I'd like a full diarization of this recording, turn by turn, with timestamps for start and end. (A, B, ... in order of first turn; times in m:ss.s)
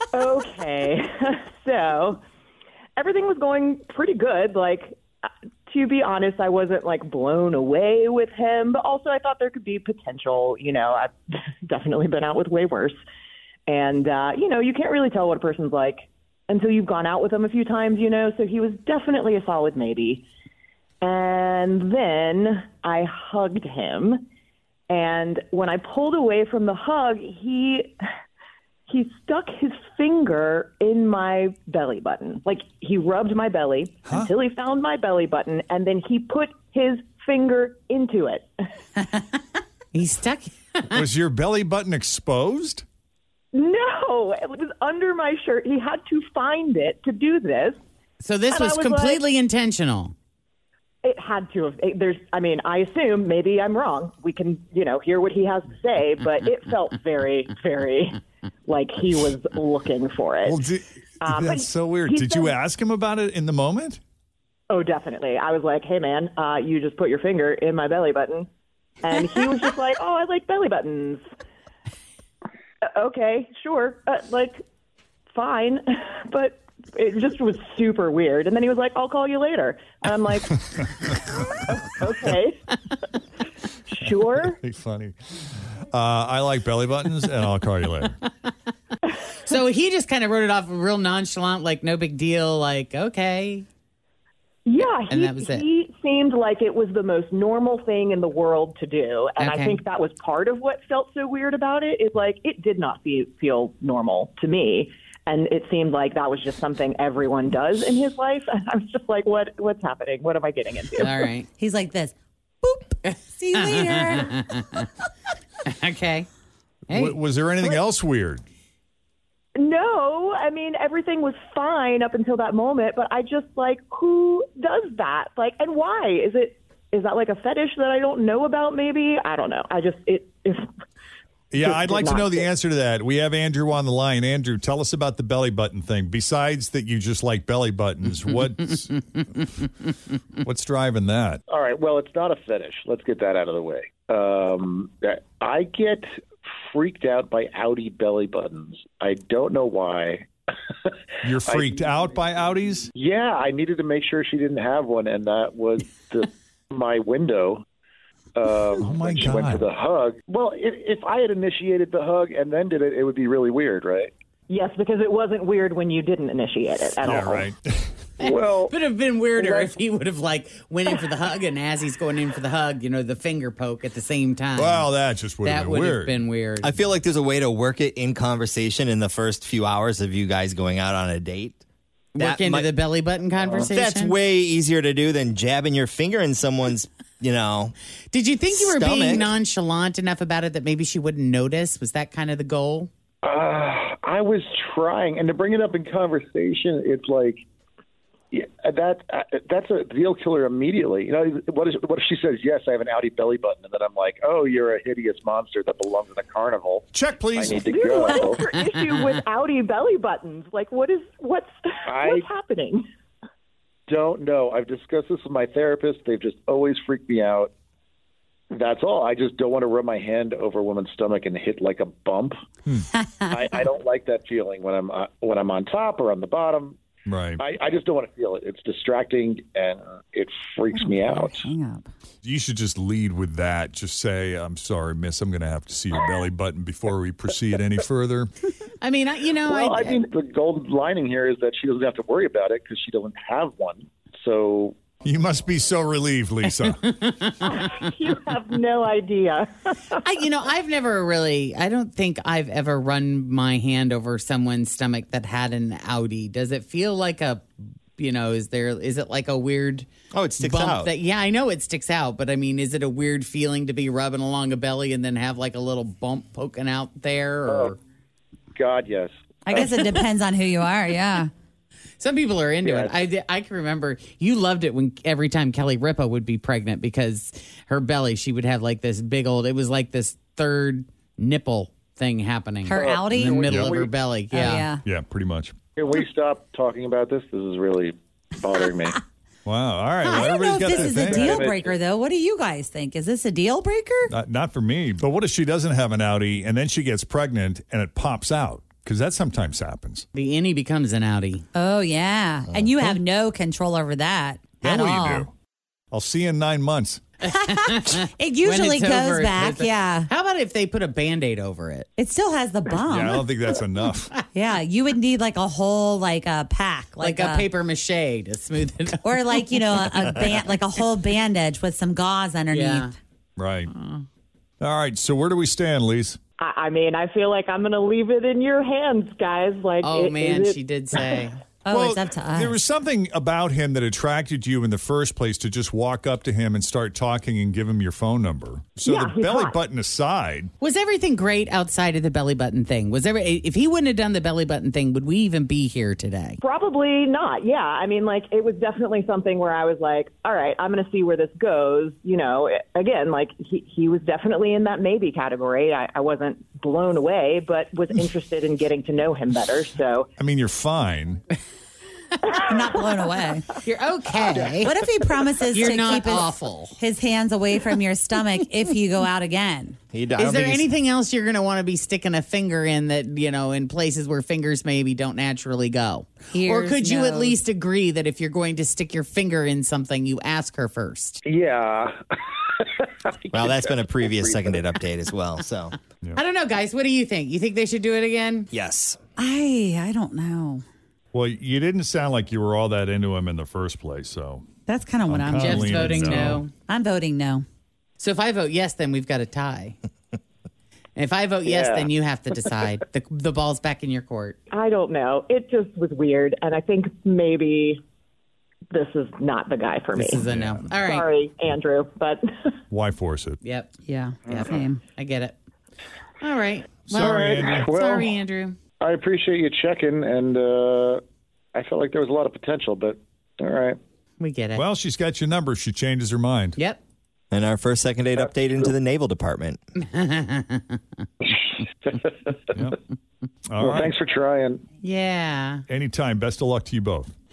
0:00.1-0:02.2 A
0:03.0-0:11.1 A
0:11.6-0:13.0 A
0:13.7-0:20.2 A
0:21.0-0:24.2 A
0:24.9-0:27.9 A
0:28.9-0:38.5 A
0:34.1-0:34.3 B
0:39.9-0:41.1 C
0:40.9-0:42.8 B
0:43.5-0:47.8 A
0:48.2-0:50.1 C
0:48.5-0:49.2 A
0:51.0-1:00.6 A
1:00.4-1:04.0 B
1:01.2-1:02.6 A
1:04.7-1:08.5 A
1:09.0-1:11.2 A
1:12.8-1:14.6 A
1:15.3-1:22.7 A
1:23.9-1:24.6 A
1:24.0-1:25.2 B
1:25.9-1:28.1 B
1:29.4-1:33.6 C
1:34.6-1:51.3 A
1:35.1-1:35.6 C
1:39.4-1:39.8 C
1:51.0-1:51.5 C
1:51.6-1:54.8 D
1:53.0-1:54.9 C
1:55.6-1:56.3 C
1:56.9-1:57.2 C
1:56.9-1:58.4 B
1:59.6-2:10.6 A
2:11.5-2:19.4 B
2:11.6-2:12.5 A
2:20.4-2:21.4 B
2:21.5-2:26.0 E
2:26.7-2:30.3 E
2:31.2-2:32.9 B
2:31.4-2:31.7 E
2:32.9-2:37.6 E
2:38.3-2:44.1 E
2:38.7-2:39.6 B
2:44.5-2:47.5 A
2:47.0-2:47.9 B
2:48.2-2:48.7 E
2:48.2-2:54.9 C
2:49.4-2:49.7 E
2:54.6-2:56.2 B
2:55.4-2:56.8 C
2:56.6-3:01.6 F
3:02.1-3:04.2 C
3:02.2-3:02.7 F
3:03.6-3:07.7 F
3:08.1-3:12.9 C
3:08.5-3:09.3 F
3:13.2-3:17.4 E
3:18.3-3:28.4 E
3:26.9-3:27.6 B
3:27.6-3:32.8 A
3:31.9-3:32.2 E
3:33.9-3:37.5 E
3:38.5-3:42.3 E
3:43.3-3:46.8 E
3:47.1-3:47.4 B
3:47.4-3:51.5 E
3:50.7-3:51.9 D
3:52.2-3:58.3 B
3:58.8-4:00.0 C
3:59.4-4:04.8 E
4:05.0-4:07.1 B
4:07.0-4:07.3 C
4:07.4-4:10.0 A
4:10.0-4:17.5 C
4:18.0-4:19.8 C
4:20.1-4:20.9 F
4:20.4-4:27.8 C
4:28.5-4:29.7 E
4:29.4-4:31.3 D
4:29.7-4:30.0 C
4:32.0-4:44.7 C
4:32.6-4:33.0 E
4:42.6-4:43.4 D
4:42.7-4:44.0 E
4:43.1-4:43.8 B
4:44.3-4:44.8 D
4:44.8-4:45.5 B
4:45.8-4:49.0 E
4:49.4-4:51.4 B
4:50.0-4:50.3 C
4:50.1-4:54.1 D
4:50.6-4:51.8 E
4:54.1-5:00.1 B
5:00.1-5:01.4 C
5:01.5-5:05.3 D
5:04.6-5:05.3 B
5:05.9-5:07.0 B
5:07.2-5:10.1 D
5:07.3-5:11.9 C
5:12.0-5:13.2 D
5:12.9-5:14.1 B
5:14.3-5:17.5 D
5:17.0-5:19.4 C
5:19.0-5:22.9 D
5:22.5-5:22.9 C
5:23.4-5:23.7 B
5:23.7-5:24.0 C
5:24.6-5:26.2 B
5:26.4-5:31.0 A
5:29.8-5:31.4 C
5:31.6-5:32.6 D
5:31.7-5:40.5 B
5:38.8-5:39.6 A
5:40.6-5:46.4 C
5:46.4-6:00.1 A
6:00.2-6:01.2 B
6:02.4-6:03.5 D
6:03.6-6:04.8 C
6:04.5-6:09.8 D
6:05.5-6:06.8 C
6:09.9-6:10.7 F
6:10.2-6:21.2 C
6:16.3-6:17.4 D
6:21.2-6:24.6 E
6:23.3-6:25.8 F
6:26.1-6:28.5 C
6:28.5-6:29.0 F
6:29.2-6:30.6 D
6:31.1-6:34.4 B
6:34.7-6:37.4 D
6:35.1-6:36.4 B
6:35.4-6:36.5 C
6:38.0-6:39.7 C
6:41.0-6:44.4 C
6:41.4-6:41.9 E
6:44.5-6:47.8 A
6:48.7-6:50.2 A
6:49.9-6:51.0 C
6:50.3-6:50.7 B
6:50.7-6:52.5 A
6:52.7-6:53.4 B
6:53.4-6:53.7 C
6:53.8-6:54.8 D
6:54.3-6:54.6 E
6:54.3-6:55.3 C
6:56.2-6:58.6 C
6:56.9-6:57.7 B
6:57.0-6:58.1 E
6:58.8-7:01.0 E
7:01.5-7:03.8 E
7:04.2-7:04.6 C
7:04.5-7:06.6 B
7:07.3-7:09.6 F
7:09.8-7:10.8 C
7:11.2-7:12.4 E
7:13.5-7:13.9 B
7:13.6-7:14.6 E
7:14.8-7:15.6 C
7:15.7-7:17.1 B